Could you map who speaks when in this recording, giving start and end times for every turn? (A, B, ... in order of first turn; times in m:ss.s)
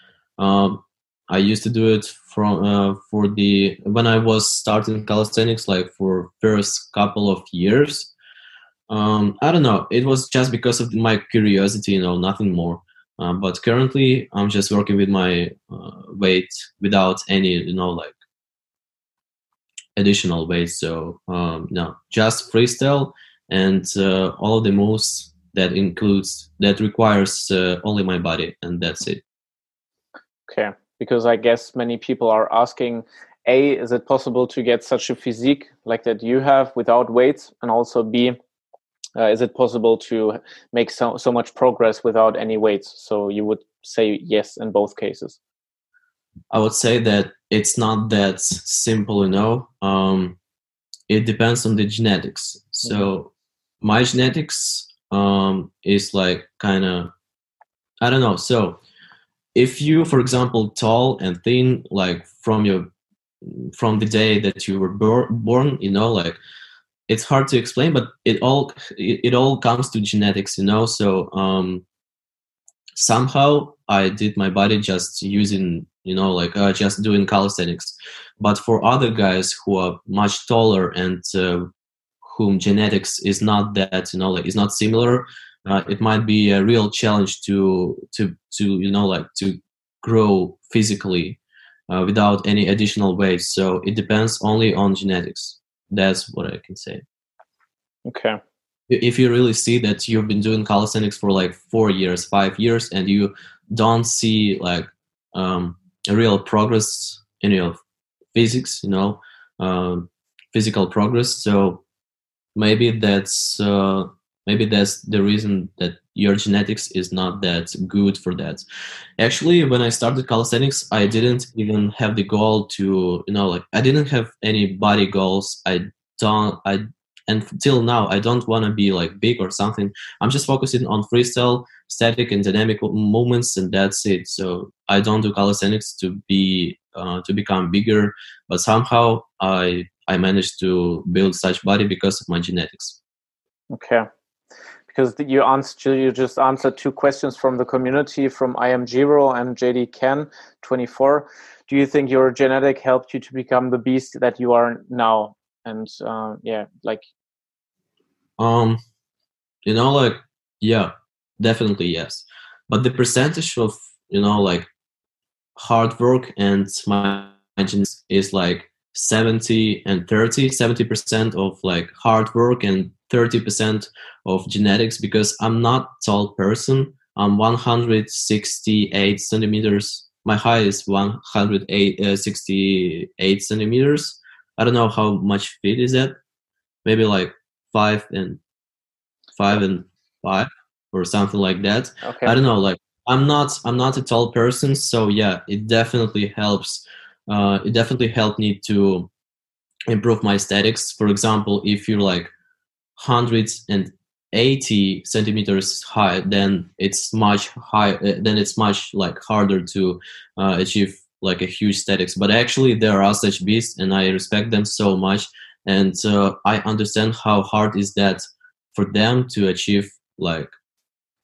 0:00.4-0:08.1 A
0:08.9-0:18.1 A
0:20.0-0:29.2 A
0:30.5-0:38.4 B
0:39.2-0:45.4 B
0:46.5-0:50.4 A
0:51.1-0:53.3 A
0:53.8-0:57.1 A
0:58.0-0:58.8 A
0:59.5-1:02.9 A
1:03.4-1:06.4 A
1:07.1-1:11.8 A
1:12.9-1:21.7 A
1:22.2-1:37.0 A
1:38.0-1:38.4 B
1:38.9-1:47.8 A
1:48.3-1:51.8 A
1:52.6-1:58.6 A
1:59.2-2:23.0 A
2:23.7-2:24.1 B
2:24.9-2:37.0 B
2:38.4-2:38.8 A
2:39.6-2:44.7 A
2:45.6-3:06.1 A
3:06.8-3:08.4 A
3:09.3-3:19.1 A
3:12.0-3:12.3 B
3:19.9-3:22.3 A
3:23.0-3:38.2 A
3:38.7-3:40.5 A